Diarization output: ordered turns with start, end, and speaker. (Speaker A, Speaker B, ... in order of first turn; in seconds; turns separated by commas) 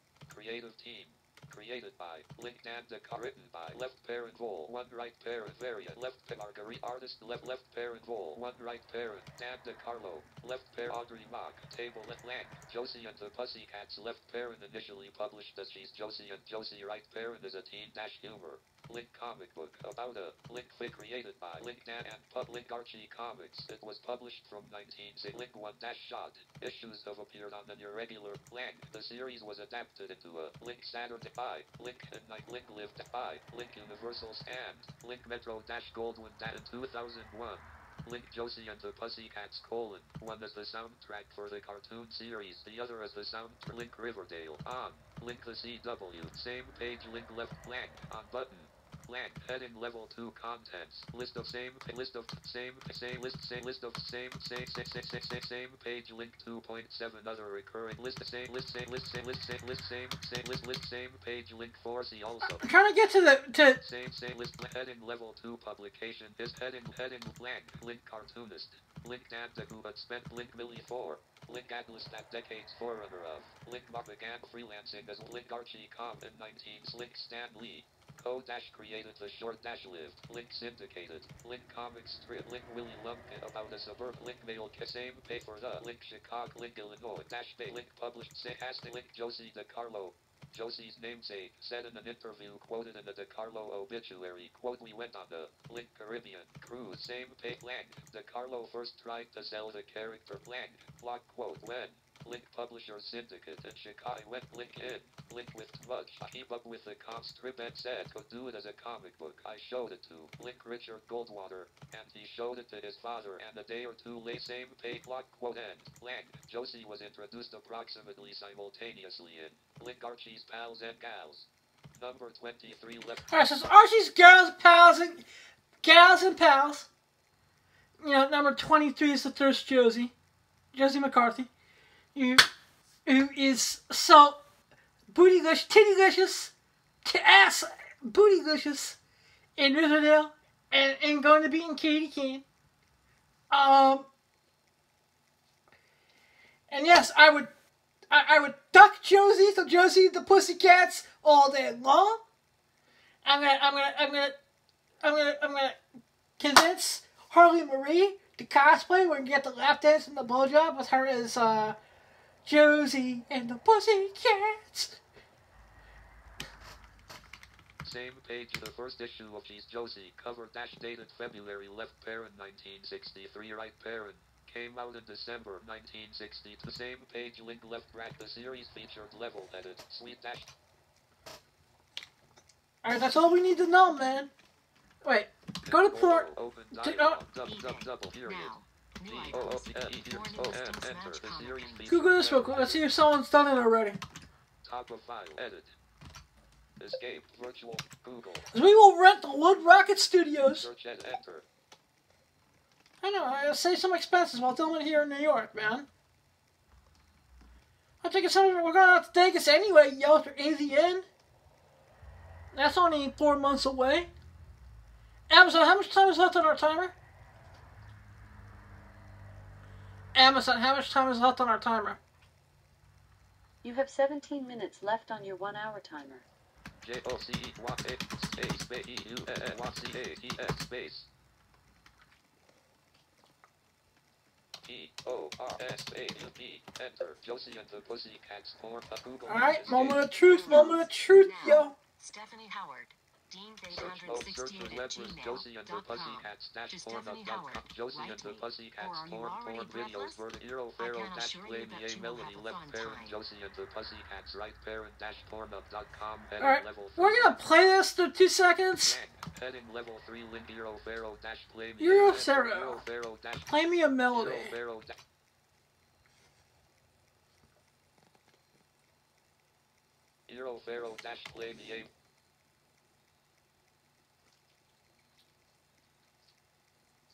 Speaker A: 0.3-62.7, Speaker B: 62.5-63.8, Speaker A: 63.8-123.3, Speaker B: 123.3-125.2, Speaker B: 125.8-126.9, Speaker B: 128.0-130.1, Speaker B: 130.7-131.5, Speaker B: 132.1-132.5, Speaker B: 133.1-134.4, Speaker B: 135.1-136.5, Speaker B: 137.0-139.0, Speaker B: 139.6-142.4, Speaker B: 143.5-144.1, Speaker B: 146.7-147.5, Speaker B: 148.1-152.2, Speaker B: 153.2-154.3, Speaker B: 155.0-155.8, Speaker B: 156.4-161.8, Speaker B: 162.4-165.0, Speaker A: 167.8-180.5, Speaker B: 182.8-184.3, Speaker B: 185.0-187.2, Speaker A: 185.7-188.5, Speaker C: 187.4-192.2, Speaker A: 189.0-192.8, Speaker B: 191.9-194.0, Speaker A: 194.6-195.7, Speaker A: 196.8-198.4, Speaker B: 198.5-200.7, Speaker A: 200.5-201.4, Speaker B: 203.0-205.9, Speaker B: 208.0-211.0, Speaker B: 212.5-214.1, Speaker B: 215.3-216.9, Speaker B: 220.1-222.0, Speaker D: 223.6-226.2, Speaker A: 226.8-231.1, Speaker A: 234.6-240.8, Speaker B: 239.3-241.7, Speaker C: 240.1-253.2, Speaker A: 243.7-257.4, Speaker B: 256.4-259.0, Speaker A: 258.8-263.6, Speaker B: 261.8-262.8, Speaker B: 263.5-264.5, Speaker A: 264.1-264.9, Speaker A: 270.3-271.9